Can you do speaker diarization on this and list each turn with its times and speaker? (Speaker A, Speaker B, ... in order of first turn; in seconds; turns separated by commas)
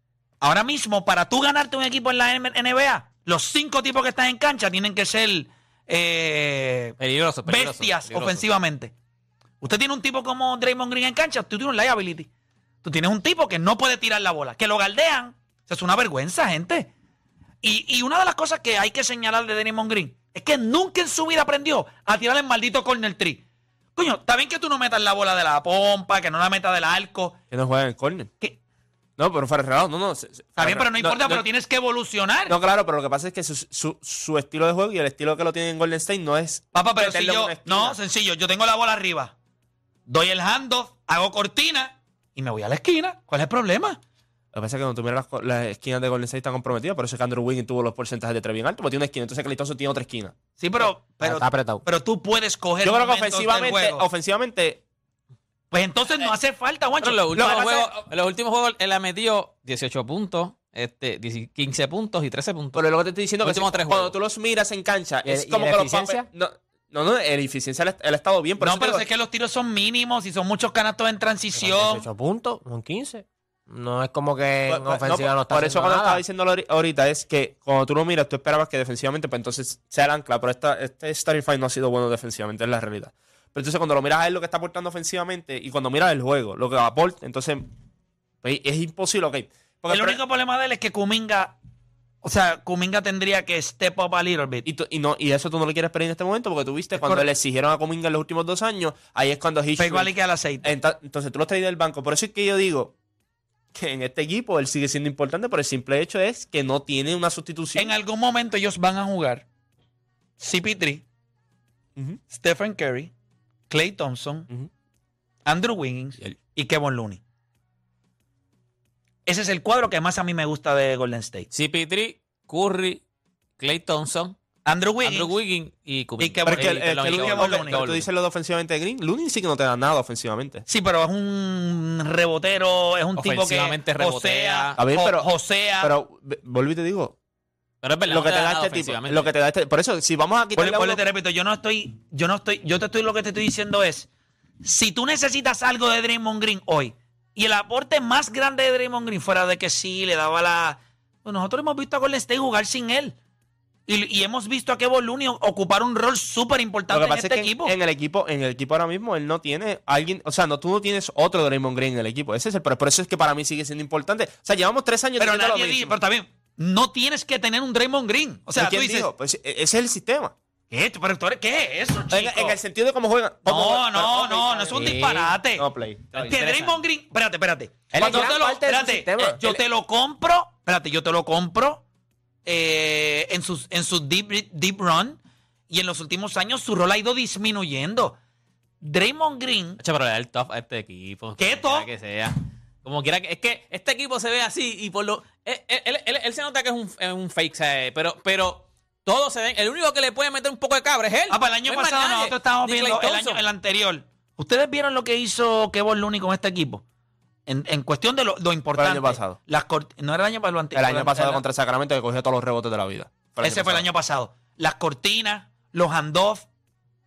Speaker A: 0.4-8.9, Speaker B: 7.0-8.5, Speaker A: 9.6-12.3, Speaker A: 12.8-16.9, Speaker A: 17.6-23.4, Speaker A: 24.0-27.4, Speaker C: 27.5-28.3, Speaker C: 29.2-31.5, Speaker A: 30.6-32.5, Speaker C: 32.5-38.0, Speaker A: 36.7-39.3, Speaker A: 40.1-44.0, Speaker C: 44.5-50.4, Speaker A: 50.6-54.1, Speaker D: 51.2-51.9, Speaker C: 52.8-54.8, Speaker A: 55.7-57.3, Speaker B: 57.0-64.2, Speaker C: 57.3-57.9, Speaker C: 62.8-69.1, Speaker D: 65.2-66.3, Speaker A: 68.6-72.1, Speaker D: 71.6-76.2, Speaker C: 74.7-87.7, Speaker C: 88.4-90.2, Speaker A: 89.9-91.6, Speaker A: 92.2-94.7, Speaker C: 94.7-102.9, Speaker A: 97.0-97.3, Speaker A: 99.8-100.7, Speaker C: 103.8-107.9, Speaker A: 107.7-109.5, Speaker A: 110.4-111.0, Speaker A: 112.3-113.1, Speaker A: 113.7-114.5, Speaker A: 115.5-117.2, Speaker A: 119.3-121.5, Speaker B: 121.5-123.0, Speaker B: 123.6-124.4, Speaker A: 124.7-125.4, Speaker B: 125.0-128.1, Speaker A: 126.2-127.8, Speaker C: 126.4-130.7, Speaker A: 130.7-135.9, Speaker B: 133.2-134.8, Speaker C: 134.8-137.2, Speaker B: 137.8-139.3, Speaker C: 138.1-141.0, Speaker A: 140.6-144.1, Speaker A: 144.6-153.2, Speaker A: 153.9-157.8, Speaker C: 156.9-166.0, Speaker A: 165.2-169.1, Speaker C: 168.6-170.3, Speaker A: 170.7-172.6, Speaker C: 172.1-175.0, Speaker A: 173.5-175.7, Speaker D: 174.7-175.4, Speaker C: 175.6-176.4, Speaker B: 176.1-176.8, Speaker A: 176.2-181.8, Speaker D: 177.9-179.4, Speaker C: 178.0-178.3, Speaker A: 182.5-188.2, Speaker A: 188.8-189.8, Speaker B: 189.8-203.4, Speaker A: 191.4-191.9, Speaker A: 201.3-206.8, Speaker A: 207.5-211.4, Speaker C: 208.8-209.4, Speaker C: 210.8-213.9, Speaker A: 213.4-216.5